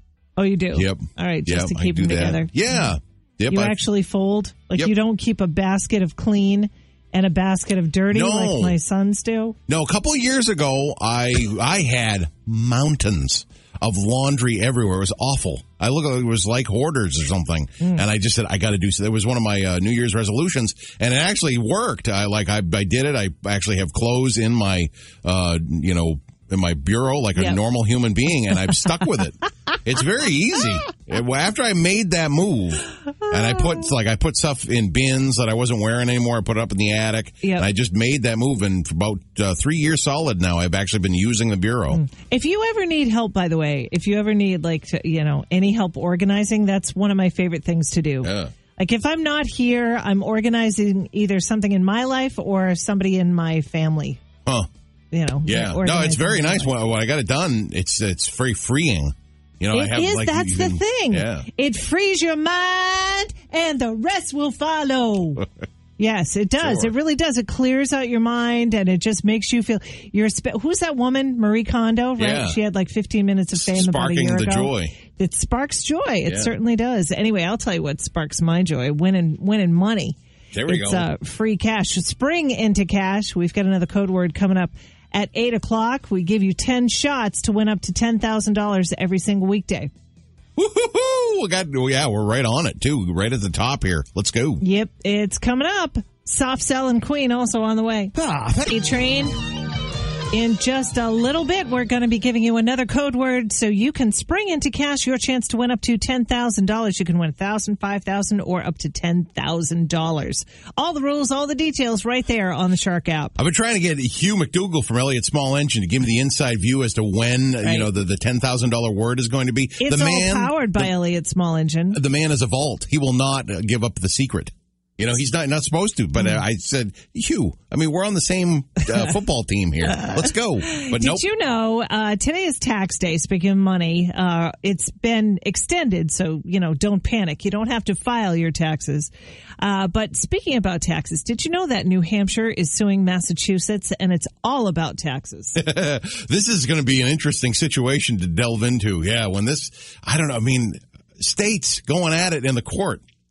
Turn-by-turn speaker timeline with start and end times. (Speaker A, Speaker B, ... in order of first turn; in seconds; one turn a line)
Speaker A: 0.4-2.5
Speaker B: 0.7-3.8
Speaker A: 3.5-9.6
Speaker B: 8.1-8.8
Speaker B: 9.7-42.0
Speaker A: 41.9-54.2
Speaker B: 48.2-48.5
Speaker A: 55.1-56.7
Speaker B: 55.5-61.5
Speaker A: 59.7-65.5
Speaker A: 66.0-89.9
Speaker B: 66.6-66.9
Speaker B: 72.2-72.6
Speaker B: 73.6-74.9
Speaker B: 76.2-76.5
Speaker B: 80.5-81.1
Speaker B: 90.5-94.6
Speaker A: 94.6-99.3
Speaker B: 98.2-98.7
Speaker A: 100.3-113.3
Speaker B: 113.4-120.9
Speaker A: 117.6-117.9
Speaker A: 119.8-122.0
Speaker B: 121.9-131.2
Speaker A: 130.0-145.6
Speaker B: 145.6-153.0